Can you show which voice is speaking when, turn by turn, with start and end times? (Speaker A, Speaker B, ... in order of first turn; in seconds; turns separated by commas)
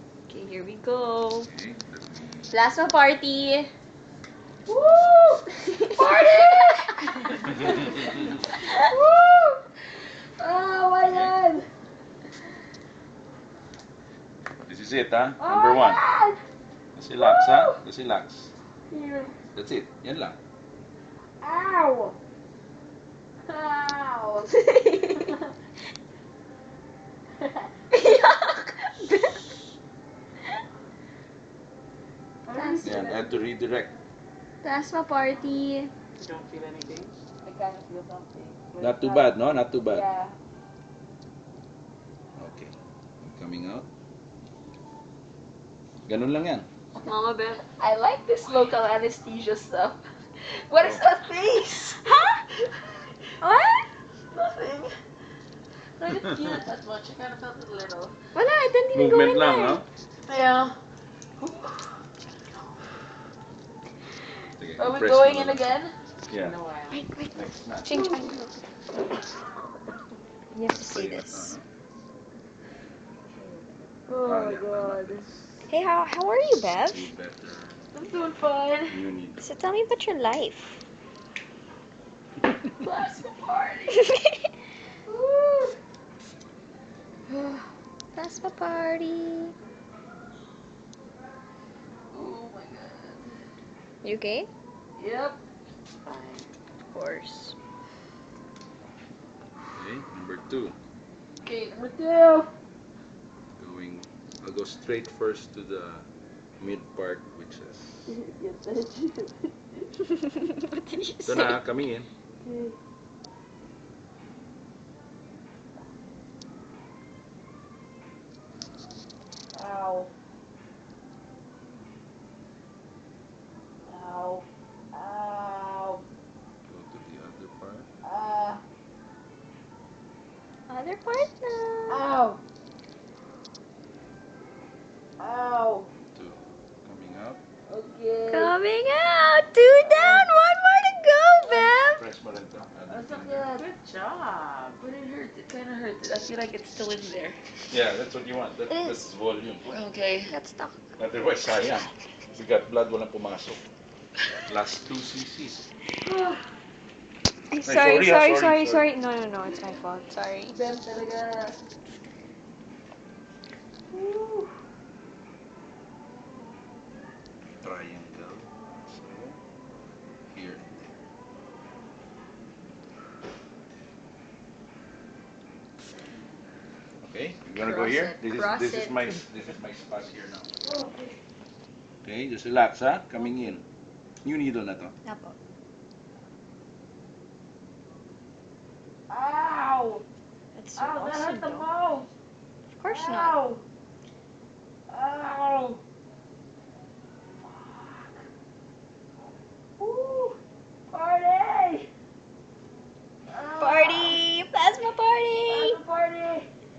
Speaker A: 0.3-1.5, Speaker B: 1.4-2.5, Speaker A: 2.5-3.7, Speaker C: 4.7-9.6, Speaker A: 5.7-6.2, Speaker A: 7.0-7.4, Speaker B: 7.5-8.0, Speaker C: 10.4-11.7, Speaker B: 11.0-11.3, Speaker B: 14.7-16.0, Speaker C: 15.4-16.4, Speaker B: 16.9-18.5, Speaker C: 17.2-17.8, Speaker C: 18.9-19.3, Speaker B: 19.5-20.4, Speaker C: 21.4-22.2, Speaker C: 23.5-24.6, Speaker A: 24.5-25.4, Speaker A: 27.9-29.6, Speaker C: 32.5-33.5, Speaker A: 32.5-33.0, Speaker B: 32.8-33.9, Speaker A: 34.6-35.9, Speaker D: 36.2-37.1, Speaker C: 37.4-40.4, Speaker B: 38.8-40.0, Speaker B: 42.4-43.9, Speaker B: 46.0-46.7, Speaker A: 47.0-47.6, Speaker C: 47.6-52.8, Speaker A: 52.1-52.4, Speaker A: 53.4-53.9, Speaker C: 54.3-54.9, Speaker C: 56.0-58.1, Speaker B: 56.1-56.5, Speaker A: 58.3-59.8, Speaker B: 58.9-59.8, Speaker C: 60.3-60.8, Speaker C: 61.4-61.9, Speaker B: 64.6-65.8, Speaker C: 64.8-65.9, Speaker B: 66.3-66.6, Speaker D: 66.3-67.0, Speaker A: 66.9-68.5, Speaker B: 67.3-67.9, Speaker C: 67.9-68.3, Speaker A: 70.5-71.6, Speaker B: 70.7-71.6, Speaker C: 74.1-75.3, Speaker B: 74.2-75.6, Speaker A: 75.7-77.1, Speaker B: 76.8-77.9, Speaker C: 77.9-79.0, Speaker B: 78.9-79.5, Speaker A: 79.4-80.8, Speaker C: 82.8-84.0, Speaker A: 83.9-84.5, Speaker C: 85.1-85.8, Speaker A: 88.1-89.5, Speaker C: 92.1-93.2, Speaker A: 94.0-94.5, Speaker C: 95.0-95.4, Speaker D: 96.0-96.5, Speaker A: 96.9-97.5, Speaker B: 99.7-100.8, Speaker C: 101.4-102.5, Speaker B: 103.6-106.0, Speaker B: 106.6-108.1, Speaker C: 108.1-109.5, Speaker A: 110.3-111.6, Speaker B: 111.2-112.1, Speaker C: 112.4-112.8, Speaker C: 119.5-120.1, Speaker C: 123.8-126.0, Speaker B: 126.6-127.9, Speaker C: 128.0-128.6, Speaker A: 130.7-132.0, Speaker C: 131.9-132.4, Speaker C: 135.2-135.9, Speaker B: 136.1-137.4, Speaker C: 137.7-138.5, Speaker A: 138.3-142.0, Speaker C: 139.8-140.3, Speaker B: 141.6-143.5, Speaker C: 142.9-143.7, Speaker D: 143.6-144.8, Speaker C: 144.8-147.4, Speaker B: 147.7-149.7, Speaker A: 148.7-149.0, Speaker C: 149.6-150.3, Speaker A: 150.2-150.9, Speaker B: 151.0-153.6, Speaker B: 154.4-155.7, Speaker C: 156.0-156.4, Speaker A: 157.5-160.6, Speaker B: 157.6-158.8, Speaker C: 160.5-161.6, Speaker C: 163.9-164.5, Speaker B: 167.6-169.4, Speaker B: 170.3-171.0, Speaker B: 177.0-180.5, Speaker A: 177.5-179.0, Speaker C: 180.6-181.2, Speaker B: 182.0-183.6, Speaker B: 184.2-184.9, Speaker A: 185.0-185.3, Speaker C: 189.1-190.0, Speaker A: 190.5-191.7, Speaker C: 190.8-192.1, Speaker A: 192.7-193.3, Speaker C: 192.9-193.6, Speaker C: 194.9-195.8, Speaker C: 197.4-198.2, Speaker C: 199.8-200.4, Speaker C: 200.9-201.9, Speaker C: 203.3-204.2, Speaker A: 203.6-205.8, Speaker C: 205.5-206.5